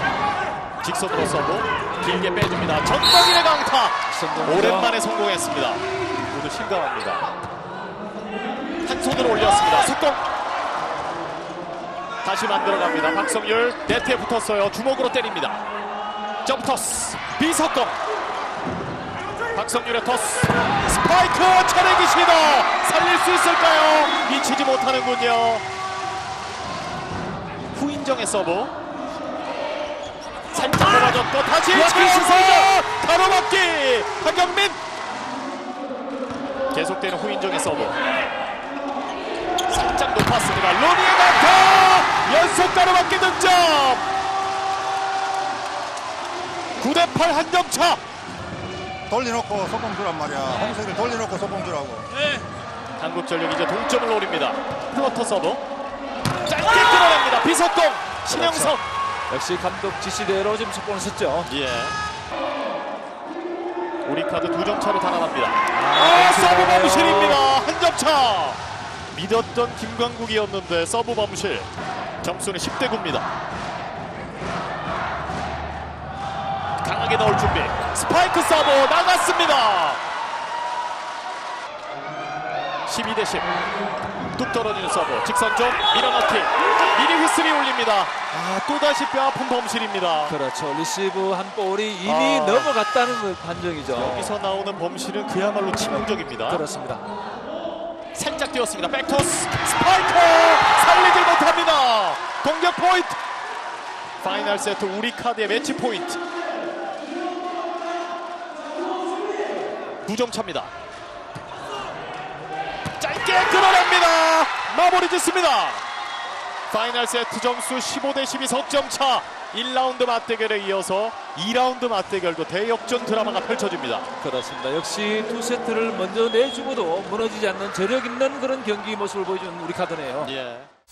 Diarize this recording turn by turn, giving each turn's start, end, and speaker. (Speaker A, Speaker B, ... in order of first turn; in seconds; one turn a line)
Speaker A: 0.8-7.3
Speaker B: 4.1-4.9
Speaker A: 8.8-10.2
Speaker A: 12.2-15.6
Speaker A: 16.4-18.0
Speaker A: 19.5-25.6
Speaker A: 27.7-28.7
Speaker A: 30.5-34.8
Speaker B: 31.7-32.8
Speaker A: 36.7-38.0
Speaker A: 39.7-44.0
Speaker A: 46.8-48.0
Speaker C: 49.1-52.0
Speaker B: 52.2-52.4
Speaker A: 53.0-55.6
Speaker A: 56.5-58.8
Speaker B: 58.3-61.5
Speaker A: 61.4-62.0
Speaker A: 64.0-68.6
Speaker B: 65.7-67.4
Speaker A: 69.1-71.7
Speaker A: 72.2-73.3
Speaker A: 76.8-80.0
Speaker A: 82.8-83.5
Speaker A: 84.3-90.3
Speaker B: 90.2-94.3
Speaker A: 92.0-92.7
Speaker A: 93.9-96.6
Speaker B: 96.5-97.0
Speaker A: 98.1-103.2
Speaker A: 104.2-106.2
Speaker A: 110.0-110.7
Speaker A: 113.0-115.8
Speaker A: 116.7-124.1
Speaker B: 124.2-130.3
Speaker A: 130.2-130.7